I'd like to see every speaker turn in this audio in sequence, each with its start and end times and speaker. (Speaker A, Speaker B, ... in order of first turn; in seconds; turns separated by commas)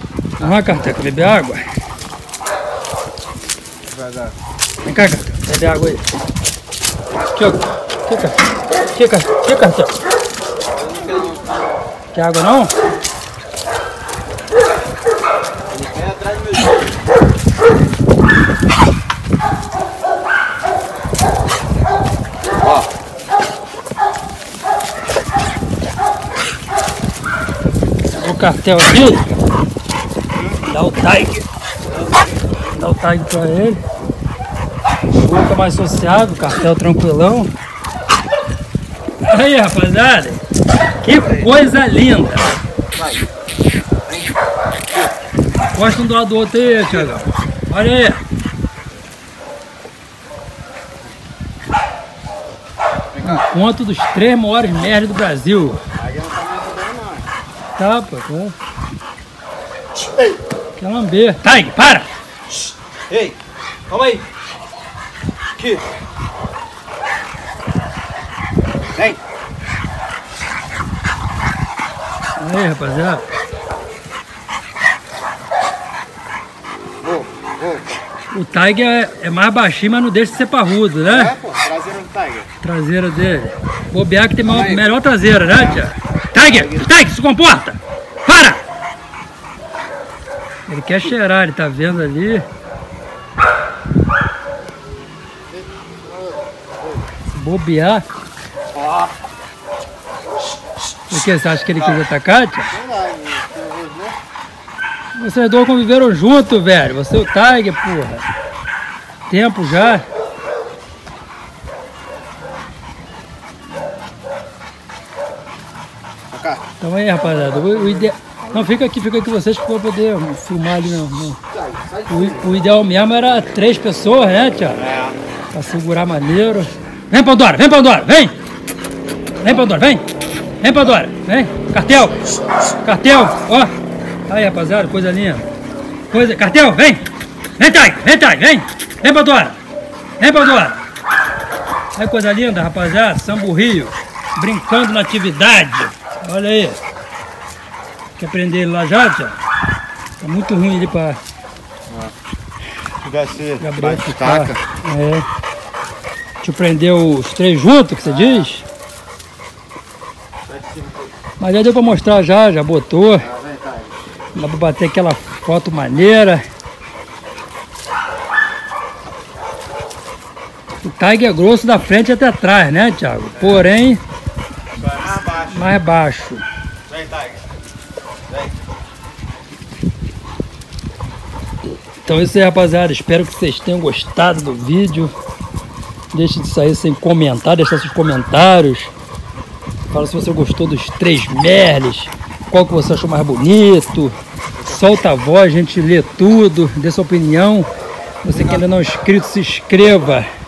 Speaker A: 0.4-1.6, Speaker B: 4.0-4.3, Speaker A: 4.8-6.0, Speaker A: 7.3-9.9, Speaker C: 10.7-11.8, Speaker A: 12.1-12.7, Speaker C: 15.7-16.8, Speaker B: 22.6-22.9, Speaker A: 28.2-29.3, Speaker B: 30.4-30.6, Speaker A: 30.7-31.4, Speaker C: 31.9-32.4, Speaker A: 32.7-33.8, Speaker A: 35.2-37.5, Speaker A: 39.2-40.4, Speaker A: 41.0-42.5, Speaker A: 45.7-48.2, Speaker C: 53.1-53.4, Speaker A: 53.2-55.8, Speaker B: 56.0-57.3, Speaker A: 57.8-58.5, Speaker B: 60.0-60.4, Speaker A: 60.8-62.1, Speaker C: 63.1-63.4, Speaker C: 63.9-64.2, Speaker C: 65.6-65.8, Speaker A: 72.4-73.2, Speaker B: 77.0-78.0, Speaker A: 78.3-81.3, Speaker B: 81.0-82.5, Speaker A: 82.6-88.6, Speaker C: 84.5-84.9, Speaker B: 85.5-85.8, Speaker B: 86.4-86.9, Speaker A: 90.7-92.5, Speaker B: 95.5-97.1, Speaker A: 97.3-98.0, Speaker B: 98.7-99.2, Speaker A: 101.1-102.7, Speaker B: 102.7-104.2, Speaker A: 105.1-108.3, Speaker A: 109.3-110.1, Speaker B: 116.3-116.6, Speaker A: 116.8-121.4, Speaker B: 117.2-118.6, Speaker B: 121.5-122.5, Speaker A: 122.1-124.8, Speaker B: 124.8-125.2, Speaker A: 125.5-128.4, Speaker A: 129.4-130.1, Speaker A: 130.6-132.3, Speaker B: 132.1-132.8, Speaker A: 132.8-133.7, Speaker A: 134.3-135.5, Speaker A: 136.1-137.1, Speaker A: 137.6-139.6, Speaker A: 140.2-140.8, Speaker A: 141.9-146.8, Speaker A: 148.2-149.4, Speaker A: 150.2-151.2, Speaker B: 151.9-152.1, Speaker B: 153.0-154.6, Speaker A: 153.6-155.3, Speaker A: 156.4-158.6, Speaker B: 158.0-158.5, Speaker B: 160.5-161.1, Speaker A: 161.4-163.3, Speaker B: 163.2-164.1, Speaker A: 164.3-166.4, Speaker A: 170.8-174.0, Speaker B: 174.7-175.7, Speaker A: 175.3-176.4, Speaker B: 176.9-177.4, Speaker A: 182.0-185.1, Speaker A: 186.1-188.9, Speaker A: 189.9-197.7, Speaker A: 198.2-200.3